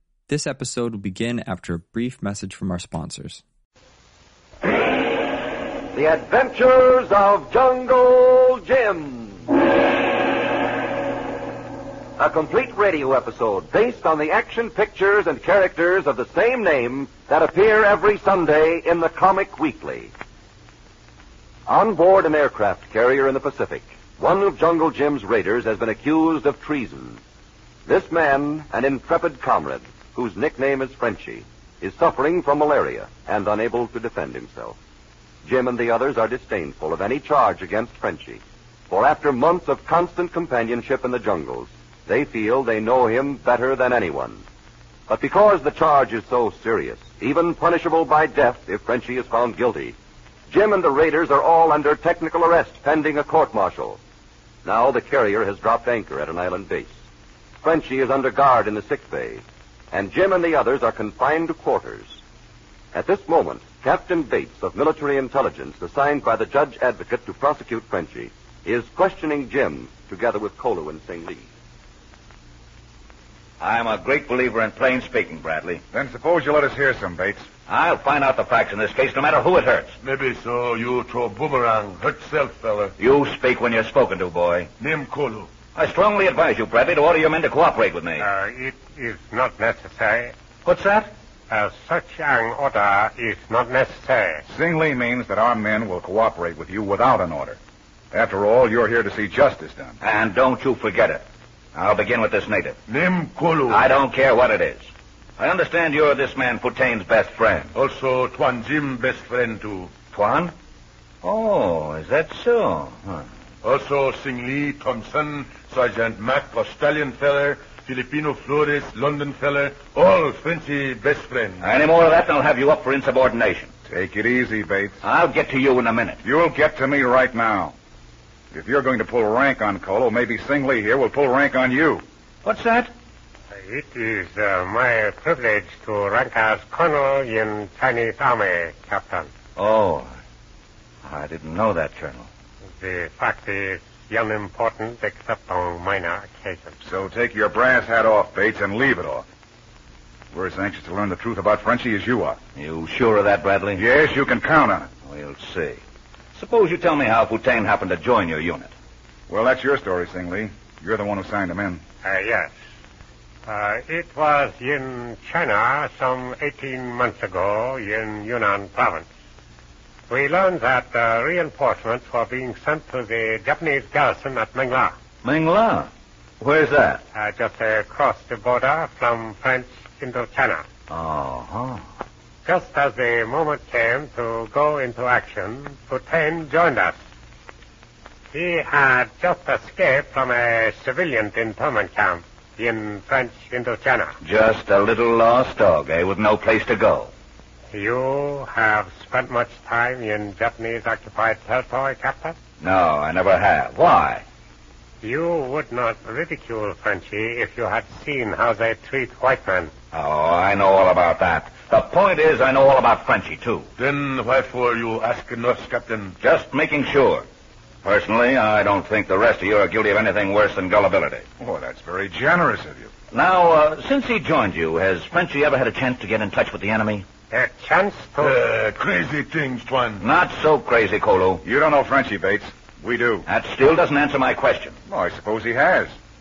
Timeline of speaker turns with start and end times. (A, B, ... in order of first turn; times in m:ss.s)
0:00.3-0:03.4 A
0:05.9-0:09.5 B
0:12.2-0:20.1 B
0:21.7-0:27.2 B
0:27.9-0:34.8 B
0:35.4-0:44.4 B
0:45.1-0:50.0 B
0:50.5-0:54.0 B
0:54.6-0:57.0 B
0:57.6-1:02.2 B
1:03.0-1:11.4 B
1:13.6-1:15.8 C
1:15.9-1:17.5 D
1:17.7-1:20.0 C
1:20.0-1:22.9 E
1:23.0-1:24.7 C
1:24.8-1:25.5 E
1:25.8-1:28.3 C
1:28.2-1:30.3 F
1:30.6-1:31.1 C
1:31.5-1:34.4 F
1:34.5-1:37.6 D
1:38.1-1:40.0 D
1:40.0-1:41.2 C
1:41.8-1:42.8 C
1:42.9-1:43.9 E
1:43.7-1:47.7 C
1:47.8-1:49.9 E
1:50.1-1:50.5 C
1:51.2-1:53.2 C
1:53.6-2:01.7 E
2:01.6-2:03.7 C
2:03.9-2:05.0 D
2:05.0-2:06.2 C
2:06.2-2:07.7 D
2:08.5-2:12.0 D
2:12.4-2:12.9 C
2:13.5-2:19.3 F
2:19.6-2:20.1 C
2:21.0-2:22.3 C
2:22.8-2:26.8 F
2:26.8-2:29.2 D
2:30.3-2:32.4 D
2:32.6-2:33.8 C
2:33.8-2:34.9 D
2:35.1-2:35.8 C
2:36.3-2:38.7 C
2:39.3-2:41.8 D
2:42.0-2:42.5 F
2:43.5-2:49.1 F
2:50.1-2:55.0 F
2:55.2-2:55.9 C
2:56.4-2:57.0 C
2:57.1-3:00.7 F
3:00.9-3:01.8 C
3:02.4-3:07.0 F
3:08.3-3:14.2 F
3:14.2-3:17.1 C
3:17.7-3:22.4 F
3:22.6-3:24.2 C
3:25.0-3:29.7 F
3:29.9-3:33.7 C
3:33.8-3:36.2 E
3:36.2-3:37.2 C
3:37.8-3:41.2 C
3:41.4-3:42.9 D
3:43.1-3:47.1 C
3:47.3-3:48.4 F
3:48.2-3:50.0 E
3:50.0-3:51.4 C
3:51.4-3:53.3 D
3:53.3-3:54.8 C
3:54.9-3:56.0 D